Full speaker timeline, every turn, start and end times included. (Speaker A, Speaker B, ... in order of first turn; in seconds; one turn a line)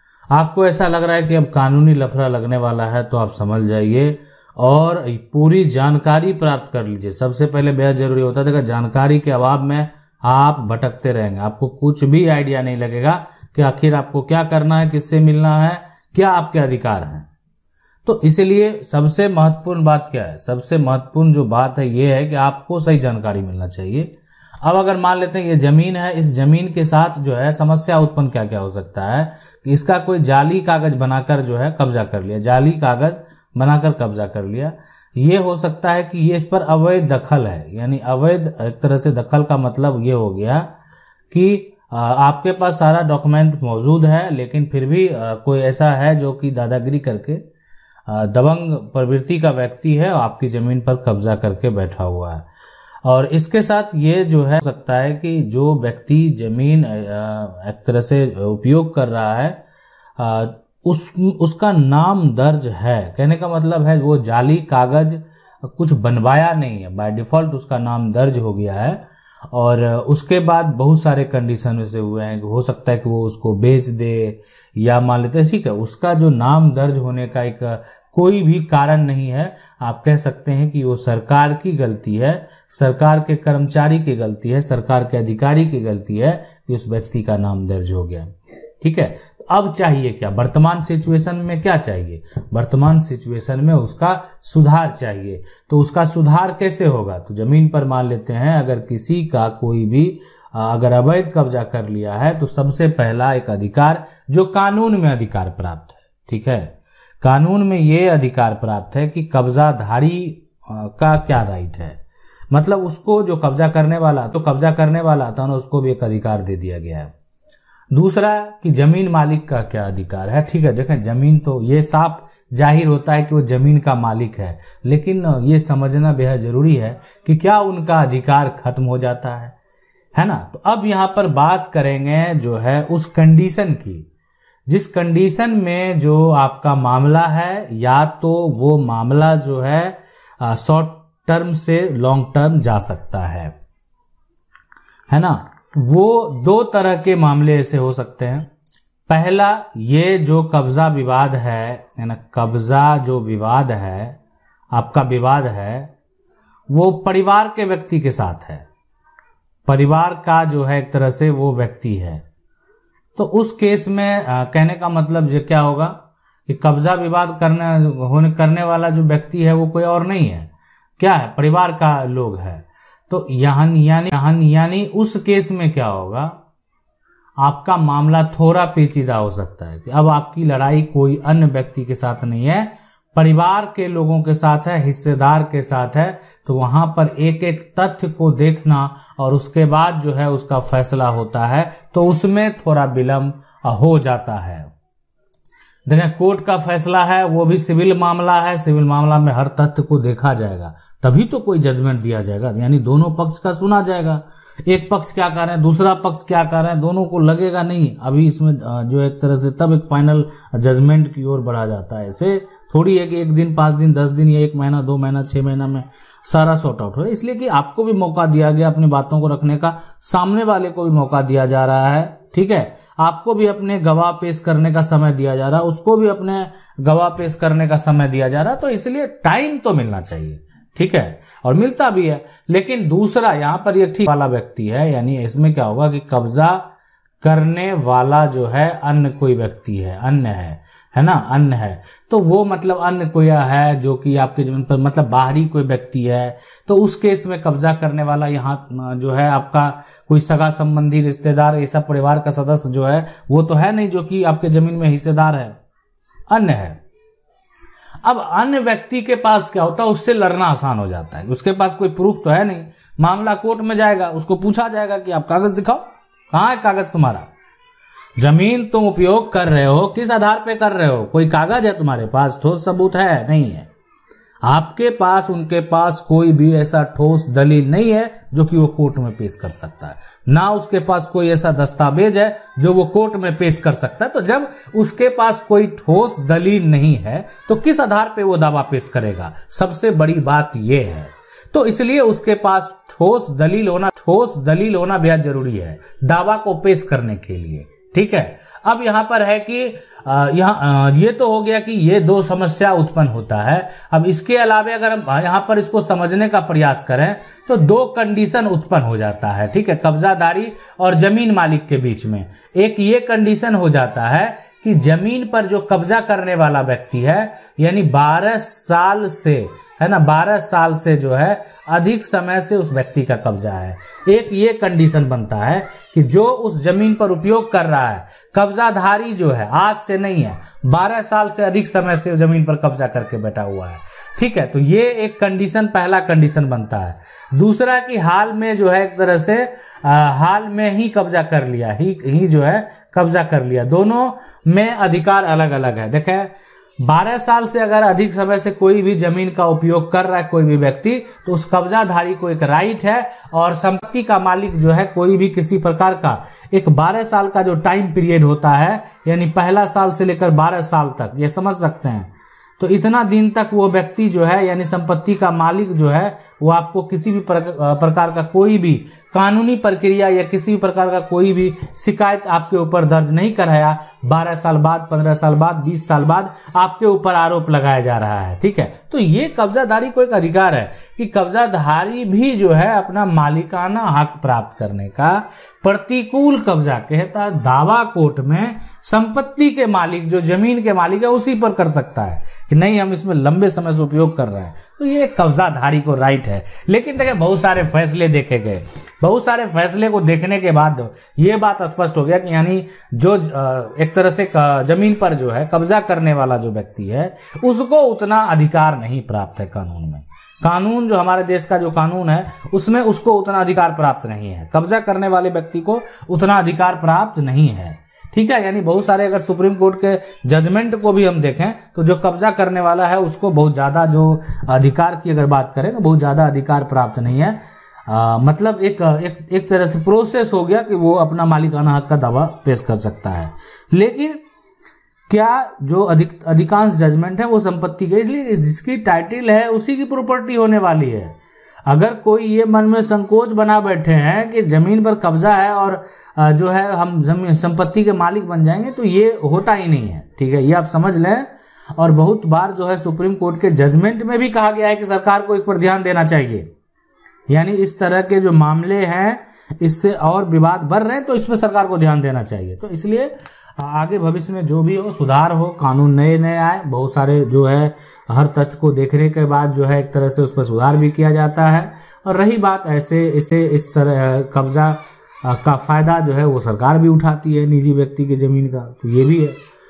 Speaker A: 0.3-17.3
Speaker A: 18.1-24.1
Speaker A: 24.6-40.7
Speaker A: 41.3-47.4
Speaker A: 48.1-52.5
Speaker A: 53.0-59.6
Speaker A: 60.2-69.0
Speaker A: 69.5-112.0
Speaker A: 112.5-117.1
Speaker A: 117.9-129.5
Speaker A: 130.2-134.1
Speaker A: 134.7-143.5
Speaker A: 145.1-148.5
Speaker A: 149.1-154.2
Speaker A: 154.7-155.9
Speaker A: 156.7-158.7
Speaker A: 159.7-162.2
Speaker A: 163.2-165.9
Speaker A: 166.5-176.4
Speaker A: 177.4-194.7
Speaker A: 195.9-236.6
Speaker A: 237.2-255.6
Speaker A: 256.3-256.8
Speaker A: 258.0-267.3
Speaker A: 268.2-273.7
Speaker A: 274.4-434.2
Speaker A: 435.1-441.1
Speaker A: 441.7-456.5
Speaker A: 457.3-479.4